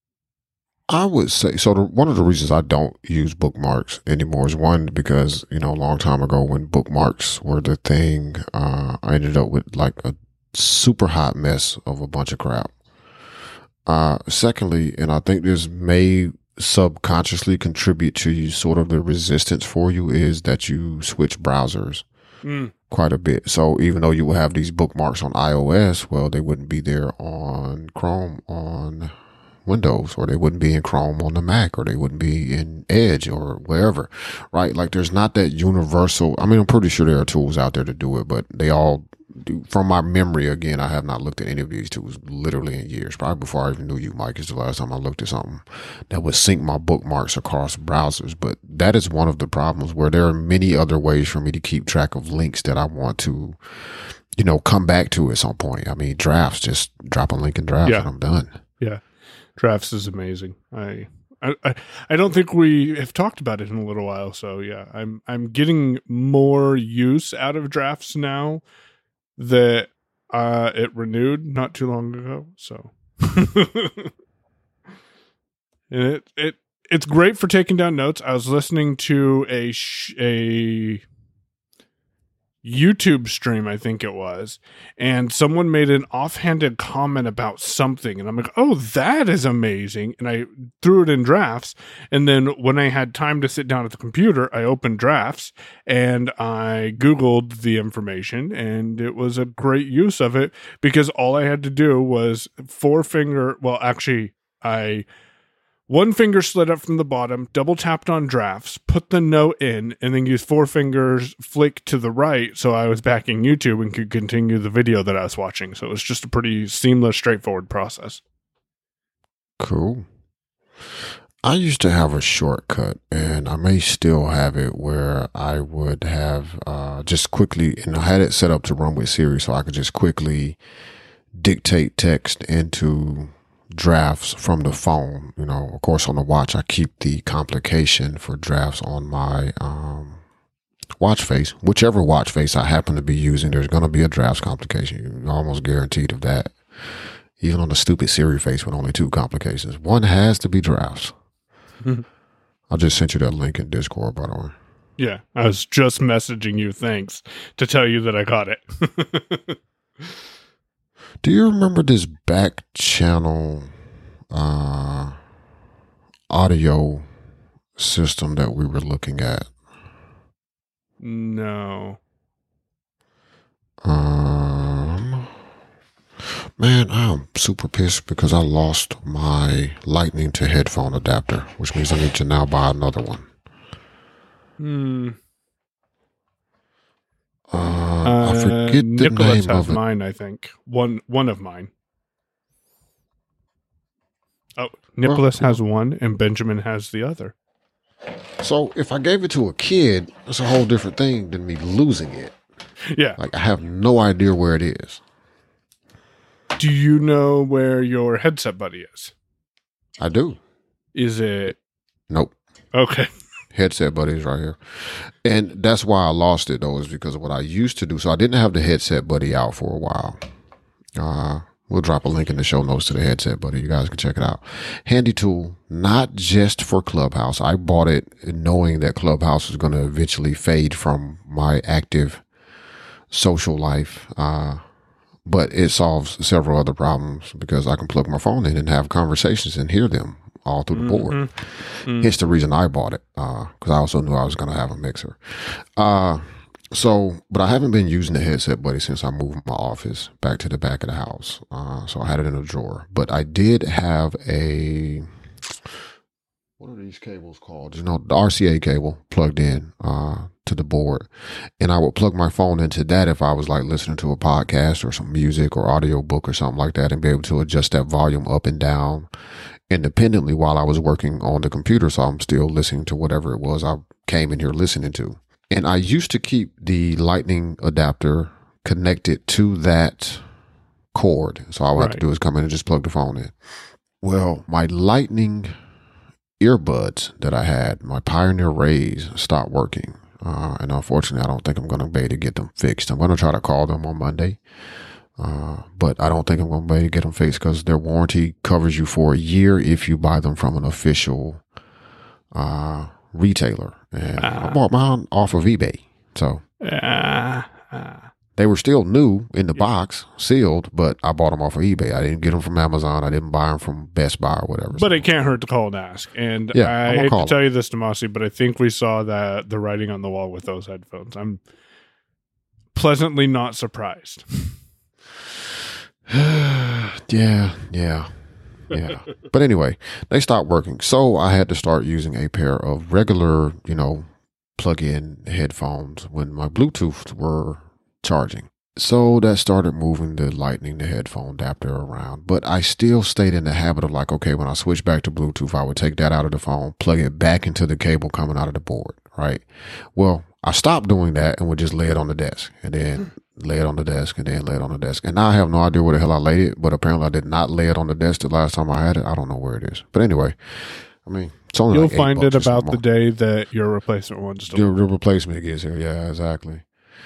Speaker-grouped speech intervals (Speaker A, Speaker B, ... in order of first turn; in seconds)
Speaker A: 0.9-12.7, 13.9-22.1, 22.9-29.1, 29.7-58.6, 119.6-120.1, 121.4-130.6, 131.4-140.2, 141.0-146.6, 147.4-151.2, 152.7-154.6, 161.2-163.7, 164.3-165.2, 166.3-167.1, 167.8-169.5, 173.8-175.3, 176.6-183.3, 187.5-189.8, 195.1-195.6, 198.4-202.4, 203.2-205.0, 210.0-210.4, 212.1-212.3, 213.5-220.2, 221.0-232.2, 233.1-234.6, 235.2-255.1, 256.6-261.1, 261.6-269.1, 269.7-280.3, 280.9-283.3, 284.0-285.5, 286.4-294.4, 295.2-301.4, 302.3-306.4, 308.4-315.1, 316.5-317.4, 326.1-362.8, 364.5-366.6
Speaker B: 22.4-22.7, 59.6-68.6, 69.4-74.1, 75.9-81.0, 82.6-105.1, 105.9-118.2, 155.0-159.6, 171.0-172.0, 184.6-185.2, 188.0-191.7, 194.6-197.3, 202.9-203.2, 206.6-209.1, 210.9-211.6, 212.7-213.1, 240.7-241.3, 241.8-242.1, 281.8-282.0, 304.2-304.6, 306.6-308.1, 314.7-321.4, 322.7-324.5, 361.7-364.7